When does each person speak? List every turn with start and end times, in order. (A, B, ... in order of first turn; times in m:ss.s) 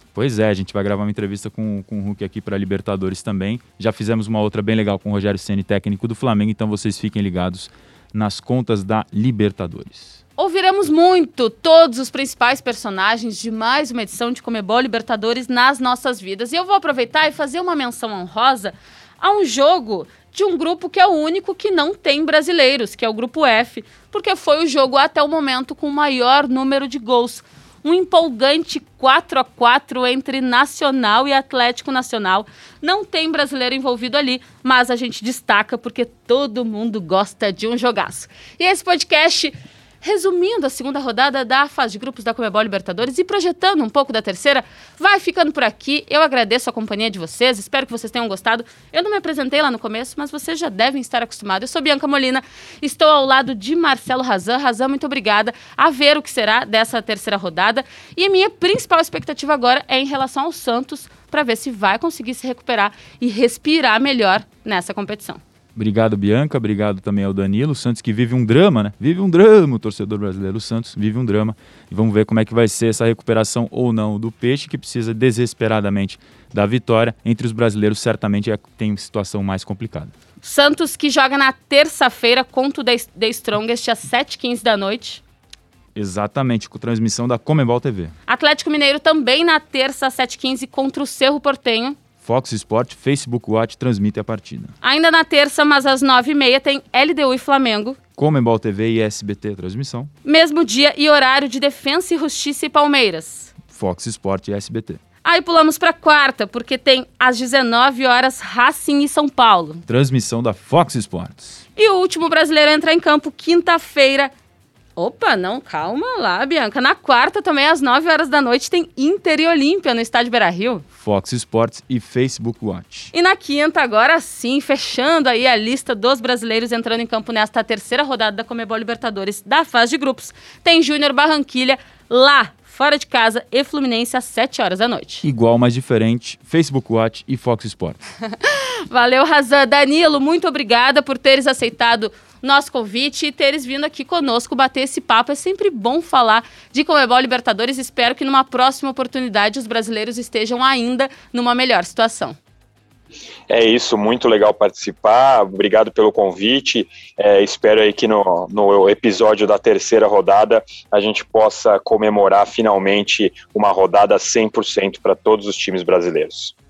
0:00.1-0:10.2 A
0:10.4-1:05.4 B
1:05.8-1:20.1 A
1:20.4-1:25.2 B
1:26.0-1:28.1 A
1:28.3-1:32.0 B
1:32.2-1:34.7 A
1:34.8-1:38.0 B
1:38.2-1:40.1 A
1:40.2-1:43.5 B
1:43.7-1:45.0 A
1:45.2-1:49.8 B
1:49.9-1:51.6 A
1:51.8-1:54.3 B
1:55.0-2:00.8 B
2:01.0-2:03.1 A
2:03.1-2:15.2 B
2:15.2-2:18.0 A
2:18.4-2:32.4 B
2:33.5-2:46.5 C